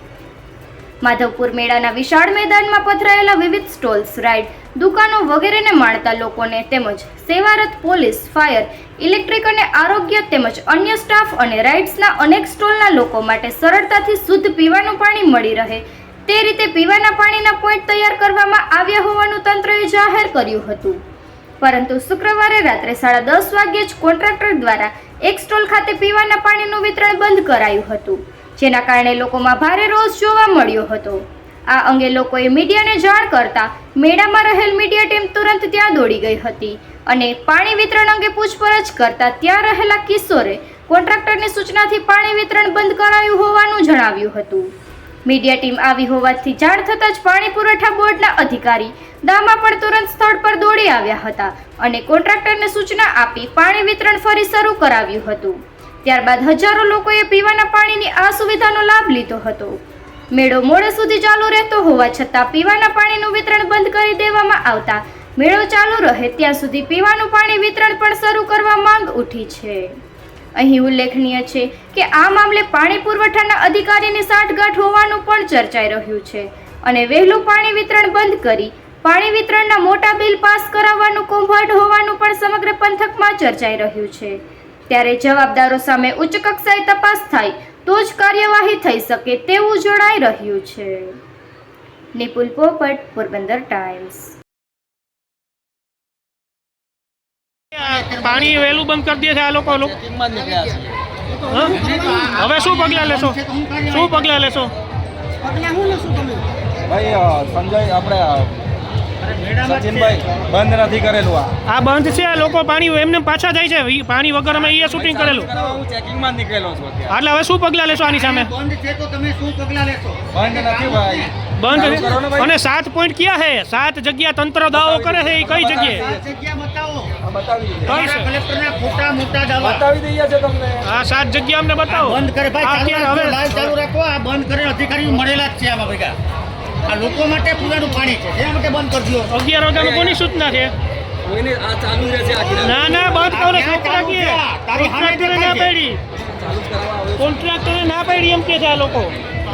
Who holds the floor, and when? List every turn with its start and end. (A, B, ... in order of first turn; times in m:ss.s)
0:01.0-0:21.0 A
0:21.6-0:44.7 A
0:45.2-0:59.8 A
1:00.3-1:09.9 A
1:10.6-1:31.2 A
1:32.1-1:34.3 A
1:37.7-1:39.9 B
1:37.8-1:38.7 C
1:39.7-1:41.0 D
1:41.5-1:41.8 B
1:41.6-1:44.3 C
1:42.3-1:43.4 B
1:43.9-1:44.7 B
1:45.5-1:46.4 C
1:46.9-1:48.6 D
1:49.2-1:50.2 C
1:49.6-1:51.6 D
1:51.6-1:55.5 B
1:54.6-1:57.2 D
1:57.1-1:58.5 B
1:57.9-2:01.3 C
2:00.3-2:02.5 D
2:01.6-2:06.0 B
2:04.7-2:06.2 D
2:05.8-2:07.1 C
2:07.2-2:08.0 D
2:07.8-2:09.9 C
2:07.9-2:08.3 B
2:09.6-2:10.9 D
2:10.8-2:13.6 B
2:11.9-2:16.1 C
2:16.8-2:19.3 C
2:19.3-2:20.7 B
2:19.7-2:20.2 D
2:21.2-2:22.9 D
2:22.6-2:26.0 B
2:23.0-2:25.7 C
2:26.2-2:27.4 D
2:27.2-2:29.2 B